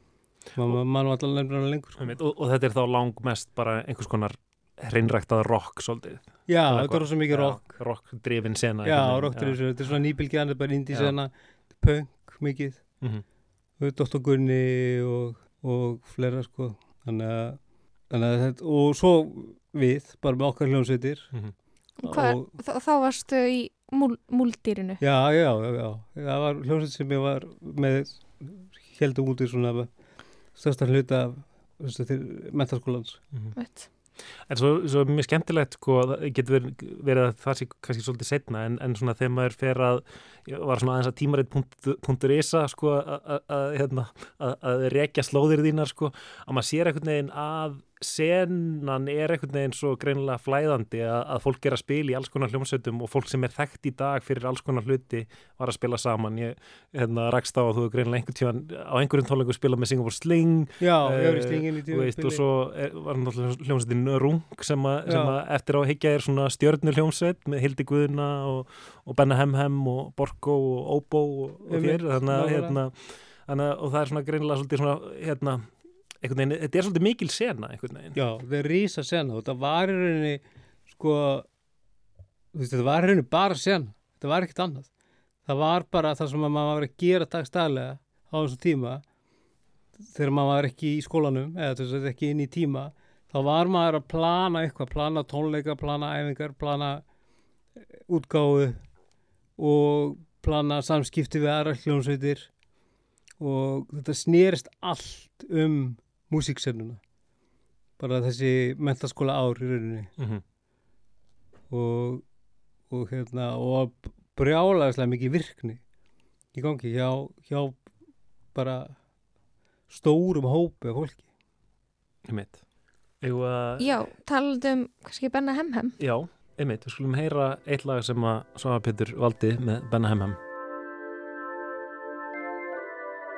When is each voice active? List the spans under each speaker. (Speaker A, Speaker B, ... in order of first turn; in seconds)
Speaker A: 0.6-2.1, 6.5-7.7, 8.8-12.8, 13.8-17.6, 18.1-21.3, 22.0-22.5, 25.0-29.9, 30.6-33.2, 60.8-62.4, 65.0-65.3, 71.7-72.8, 78.1-81.5, 82.5-84.9, 85.5-89.0, 90.0-97.0, 98.0-98.8, 99.6-102.5, 103.4-107.0, 108.0-110.1, 111.7-112.2, 112.9-115.8, 116.5-117.8, 118.5-119.0, 119.9-121.2
Speaker B: 2.0-9.6, 34.5-75.7, 76.2-78.2, 110.2-110.4, 122.3-122.6, 123.2-124.0, 126.0-130.4
Speaker C: 22.0-25.0, 33.5-33.9, 123.8-125.9